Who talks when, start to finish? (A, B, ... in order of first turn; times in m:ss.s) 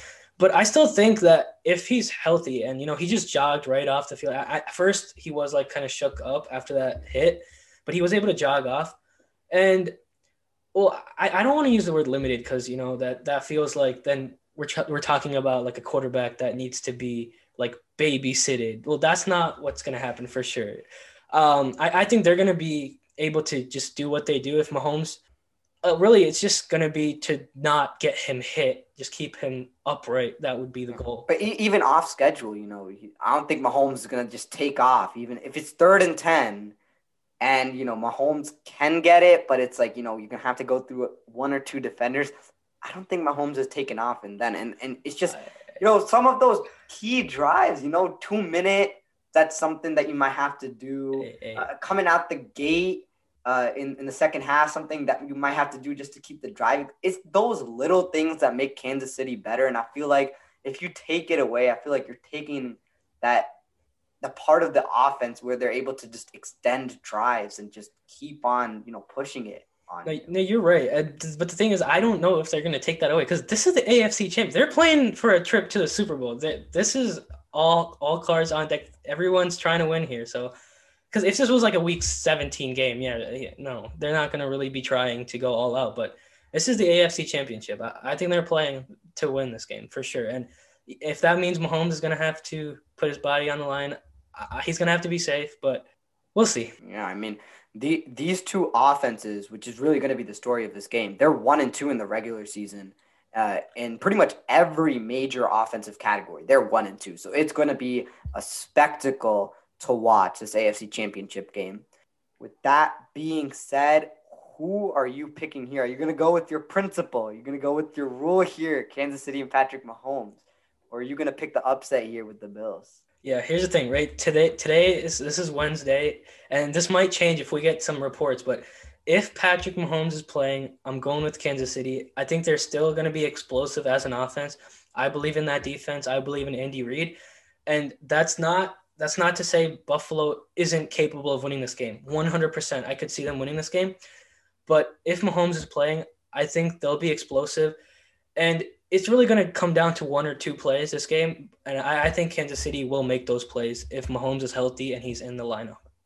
0:00.4-0:09.0 A
0:09.5-0:09.9 A
0:10.7-0:25.2 A
0:25.8-0:31.3 A
0:30.9-0:36.7 B
0:37.4-1:03.5 B
0:45.3-0:45.8 A
0:51.2-0:51.7 A
1:04.2-1:10.3 B
1:10.0-1:20.5 A
1:21.1-1:36.7 A
1:36.8-1:51.8 B
1:52.4-2:03.0 B
2:03.2-2:24.0 A
2:24.6-2:27.8 A
2:28.4-2:35.8 A